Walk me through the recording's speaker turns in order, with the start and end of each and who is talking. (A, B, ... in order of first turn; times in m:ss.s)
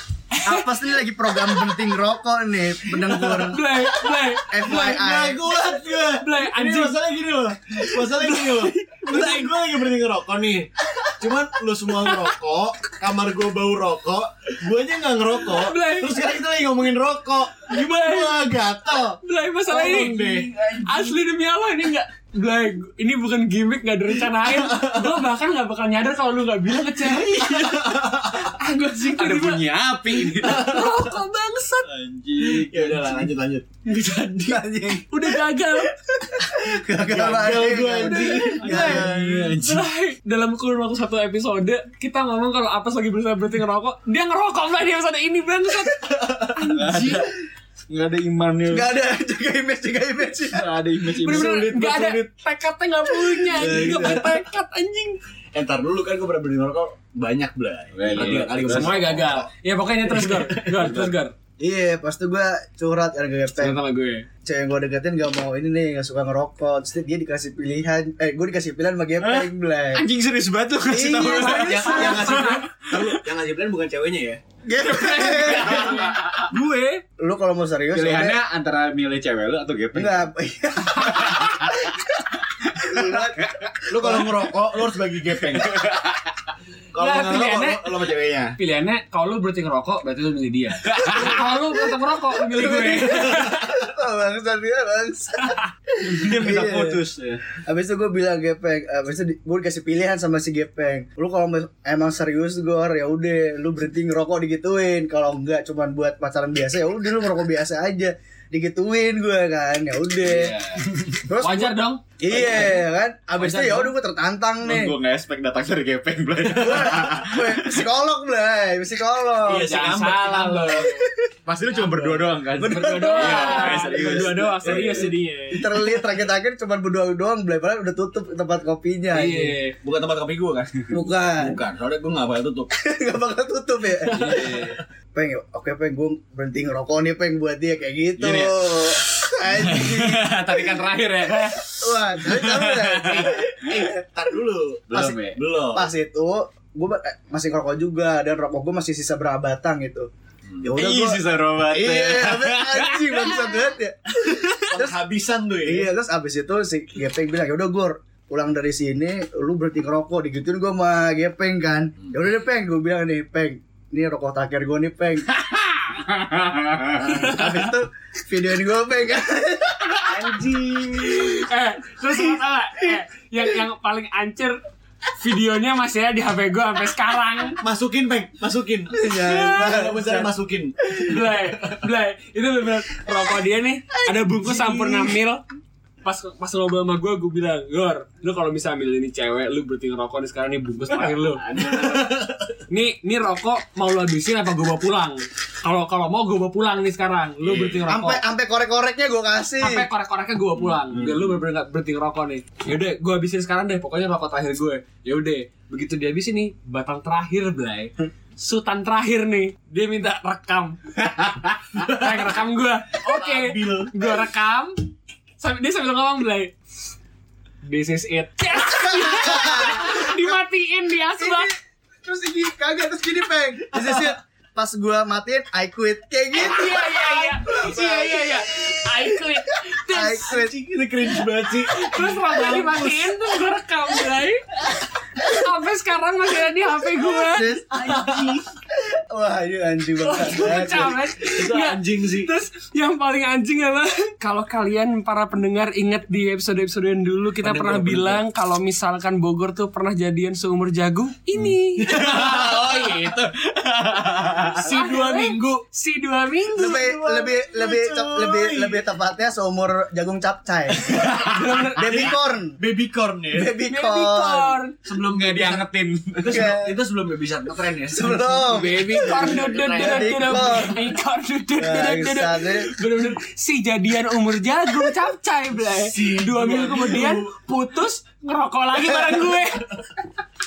0:00.3-0:00.7 A
0:00.4-0:03.6 B
0:03.0-0:20.5 C
0:03.2-0:04.8 A
0:04.5-0:05.4 B
0:06.2-0:07.0 A
0:08.0-0:09.6 A
0:15.4-0:16.2 A
0:17.7-0:18.4 A
0:19.2-0:27.7 A
0:20.6-0:21.0 D
0:24.4-0:25.2 C
0:27.3-0:28.5 C
0:28.4-0:29.6 A
0:29.0-0:30.8 D
0:30.3-0:31.9 A
0:30.4-0:31.0 C
0:31.8-0:33.3 D
0:32.4-0:34.6 C
0:34.0-0:34.5 A
0:34.4-0:35.1 B
0:35.1-0:36.0 A
0:36.2-0:39.6 B
0:37.0-0:39.1 C
0:38.3-0:39.1 A
0:38.6-0:39.9 D
0:39.6-0:47.2 A
0:46.0-0:46.7 C
0:46.7-0:47.3 D
0:47.9-0:48.9 D
0:48.7-0:50.7 B
0:50.5-0:51.6 D
0:51.2-0:55.2 A
0:51.2-0:52.3 C
0:51.3-0:51.7 B
0:53.3-0:54.4 B
0:53.5-0:54.3 C
0:55.5-0:59.5 C
0:57.9-0:59.0 D
0:58.1-1:01.3 A
1:00.0-1:01.1 C
1:00.8-1:01.1 D
1:01.6-1:03.8 B
1:03.6-1:04.3 A
1:04.4-1:10.0 B
1:09.2-1:13.2 D
1:10.9-1:12.0 B
1:11.2-1:12.6 A
1:11.5-1:14.4 C
1:14.6-1:16.2 B
1:14.8-1:16.5 D
1:15.4-1:17.0 A
1:17.2-1:18.4 B
1:17.9-1:20.3 D
1:19.9-1:24.4 B
1:20.9-1:21.9 D
1:22.6-1:24.3 D
1:23.9-1:25.9 C
1:25.4-1:26.5 D
1:26.9-1:28.6 C
1:27.0-1:28.0 A
1:28.6-1:33.6 A
1:30.8-1:31.3 D
1:32.5-1:37.0 B
1:36.0-1:37.4 D
1:37.6-1:55.0 B
1:50.2-1:50.9 D
1:51.4-1:52.8 A
1:52.4-1:52.7 D
1:53.4-1:53.9 A
1:54.6-1:57.8 D
1:56.4-1:56.9 C
1:56.5-1:59.8 B
1:59.4-2:01.0 C
1:59.5-2:01.1 A
2:01.4-2:05.1 D
2:01.9-2:04.9 B
2:02.6-2:05.8 A
2:03.2-2:05.2 C
2:05.5-2:09.6 B
2:09.1-2:09.8 A
2:09.8-2:12.7 C
2:10.9-2:11.6 B
2:12.7-2:20.8 B
2:14.0-2:14.8 C
2:14.1-2:14.8 D
2:18.2-2:23.6 D
2:21.4-2:24.0 B
2:23.7-2:25.9 C
2:24.9-2:25.4 D
2:24.9-2:30.1 B
2:30.6-2:35.0 B
2:30.8-2:33.5 D
2:34.6-2:35.9 C
2:35.6-2:45.4 B
2:45.4-2:47.3 D
2:46.9-2:51.2 B
2:47.0-2:47.4 A
2:50.1-2:50.7 C
2:50.9-2:54.6 A
2:55.1-2:57.6 A
2:57.6-3:01.8 C
2:58.9-3:00.3 B
3:00.9-3:05.4 A
3:04.0-3:05.1 B
3:06.0-3:11.8 A
3:10.9-3:12.6 C
3:12.7-3:18.2 A
3:17.8-3:19.9 B
3:19.6-3:36.5 A
3:20.9-3:21.4 C
3:33.0-3:34.0 C
3:37.6-3:41.5 A
3:38.5-3:40.4 B
3:41.2-3:50.5 B
3:43.7-3:44.1 C
3:46.3-3:50.5 A
3:50.2-3:53.2 C
3:51.4-3:54.4 A
3:55.2-3:57.6 A
3:57.0-4:01.0 B
3:57.7-3:58.4 C
4:00.0-4:12.8 A
4:01.2-4:02.3 C
4:07.4-4:08.2 C
4:11.8-4:14.7 D
4:12.0-4:12.8 C
4:14.5-4:15.6 C
4:14.6-4:18.8 A
4:16.5-4:21.1 B
4:20.8-4:21.6 D
4:21.0-4:22.1 A
4:21.6-4:23.6 C
4:21.7-4:22.6 B
4:23.3-4:24.6 B
4:23.6-4:24.8 A
4:24.8-4:30.8 C
4:25.0-4:26.5 D
4:26.3-4:26.8 B
4:27.9-4:31.0 B
4:28.5-4:39.7 A
4:31.6-4:32.7 B
4:35.6-4:37.4 C
4:38.9-4:39.4 C